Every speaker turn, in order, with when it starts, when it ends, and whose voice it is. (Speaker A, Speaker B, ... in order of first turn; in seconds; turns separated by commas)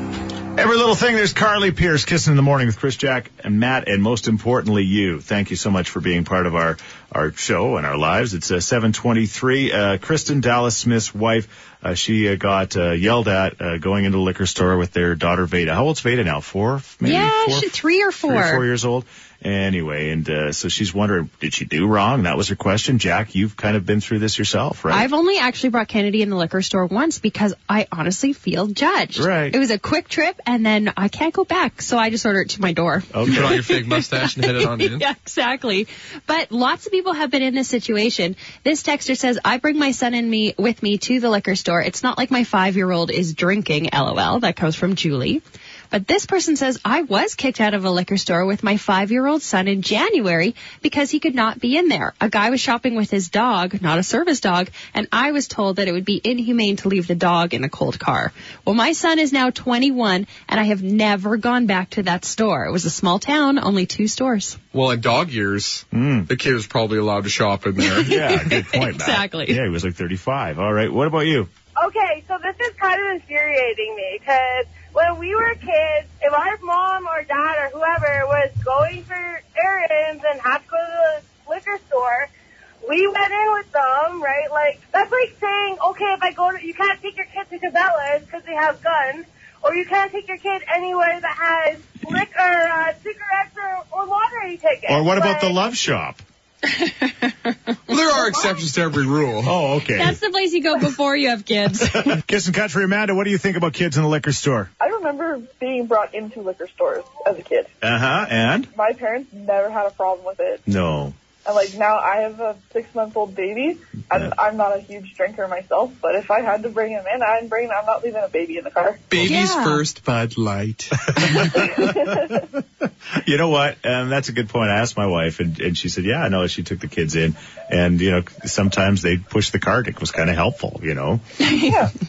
Speaker A: 0.6-25.1, Speaker B: 17.0-18.6, Speaker B: 24.9-64.6, Speaker A: 29.1-29.6, Speaker A: 33.1-33.6, Speaker C: 33.2-35.0, Speaker C: 64.7-68.2, Speaker A: 65.9-66.3, Speaker B: 67.8-69.6, Speaker A: 68.0-71.5, Speaker D: 71.8-82.3, Speaker D: 82.8-95.6, Speaker A: 94.9-96.2, Speaker B: 96.7-97.5, Speaker C: 97.9-99.5, Speaker A: 99.4-100.2, Speaker B: 99.9-102.2, Speaker A: 101.9-104.7, Speaker E: 104.8-107.7, Speaker A: 107.8-108.7, Speaker E: 108.7-110.6, Speaker A: 110.7-111.2, Speaker E: 111.4-119.0, Speaker C: 119.1-121.7, Speaker B: 119.2-119.8, Speaker A: 121.1-122.6, Speaker A: 123.1-131.2, Speaker B: 131.4-131.8